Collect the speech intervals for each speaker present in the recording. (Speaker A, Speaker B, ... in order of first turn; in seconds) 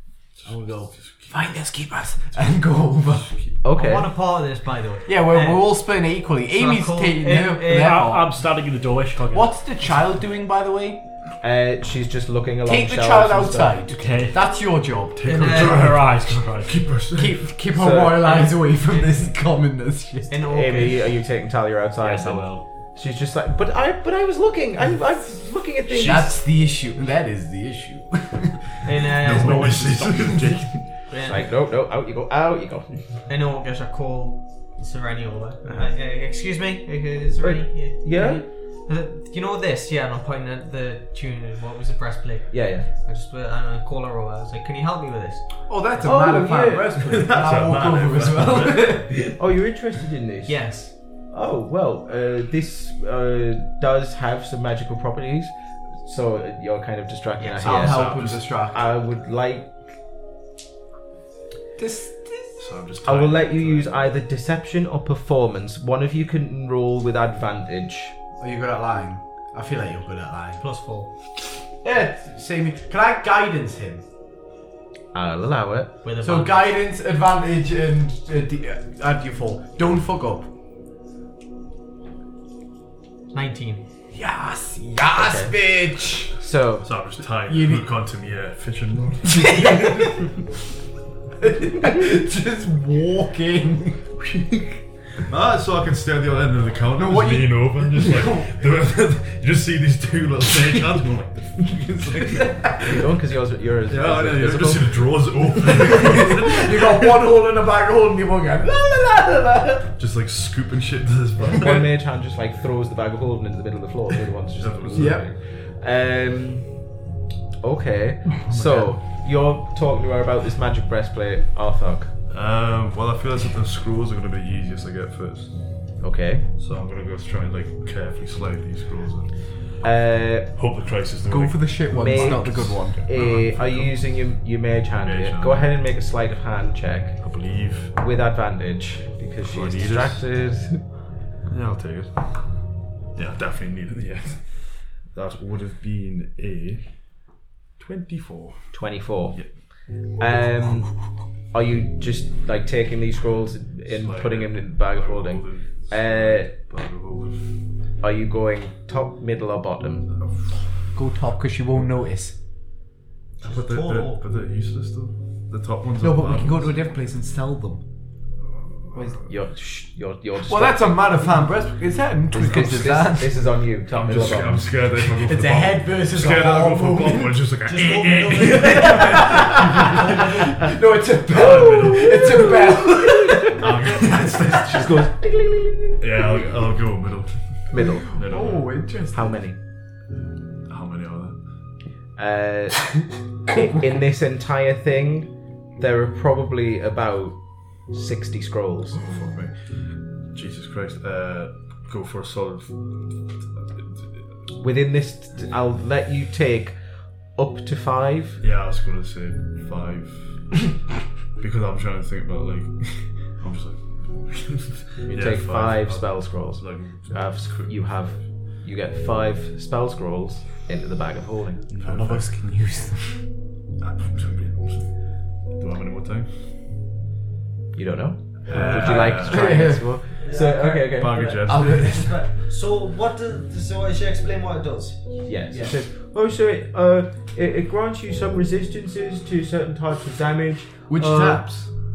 Speaker A: 0.4-1.6, 2.3-3.5, 15.2-17.5, 29.1-30.8, 47.1-49.0, 57.8-58.5, 62.6-64.2, 86.8-90.3, 94.4-94.6, 95.2-102.8, 103.9-107.1, 110.0-111.9, 114.6-115.3, 118.5-118.9, 122.3-125.5, 126.6-129.3, 130.6-134.0, 135.0-135.7, 137.2-137.9, 139.5-140.2, 141.5-142.4, 143.2-146.8, 147.8-148.7, 153.9-157.4, 163.4-166.8, 173.9-180.5, 181.3-182.8, 183.4-184.9, 186.0-187.4, 188.0-188.7, 190.7-191.4, 199.0-199.6, 200.3-202.8, 208.4-210.7, 211.4-217.8, 221.7-222.3, 223.8-226.4, 228.5-229.7, 230.8-232.0
Speaker B: 0.5-3.3, 5.1-8.3, 9.3-11.0, 12.7-15.8, 17.1-20.3, 26.0-28.6, 45.7-49.4, 57.6-58.9, 61.8-62.5, 68.4-70.6, 71.8-74.0, 76.2-80.5, 84.1-86.3, 87.5-87.8, 89.3-90.2, 91.4-94.2, 97.0-98.5, 100.6-101.0, 101.7-102.9, 105.6-109.9, 114.9-115.3, 131.3-133.0, 160.9-162.3, 166.0-167.8, 168.9-169.2, 170.4-173.5, 174.1-174.4, 174.9-177.4, 178.4-184.9, 188.1-189.3, 221.7-223.2, 228.5-229.8, 231.5-232.2, 240.9-241.7
Speaker C: 3.6-4.1, 11.4-13.8, 17.7-18.4, 20.5-26.4, 31.2-32.9, 37.4-38.4, 42.5-42.9, 46.0-47.2, 49.4-50.6, 51.3-58.1, 58.7-59.7, 63.0-68.2, 75.1-75.9, 85.2-85.6, 86.4-86.9, 102.8-105.2, 111.4-116.7, 117.6-122.1, 126.0-126.5, 129.8-130.5, 131.9-137.2, 138.0-140.8, 148.7-149.4, 150.2-150.9, 151.5-156.5, 158.0-160.1, 169.2-171.2, 172.3-174.7, 181.3-183.6, 184.5-186.1, 187.7-188.1, 189.1-189.6, 192.2-192.9, 193.5-197.4, 197.9-199.1, 204.6-206.8, 207.4-208.4, 215.1-221.6, 227.8-231.2, 235.2-241.4
Speaker D: 3.8-5.8, 6.5-8.1, 15.2-15.8, 18.2-19.2, 20.3-21.1, 28.8-29.8, 31.1-31.4, 33.3-45.6, 50.5-50.9, 57.4-58.0, 70.6-71.1, 76.0-76.7, 83.3-83.8, 163.4-164.2, 177.7-180.3, 230.2-235.7
Speaker E: 7.7-9.6, 13.9-14.4, 15.5-16.8, 22.0-22.6, 25.9-26.3, 29.3-30.6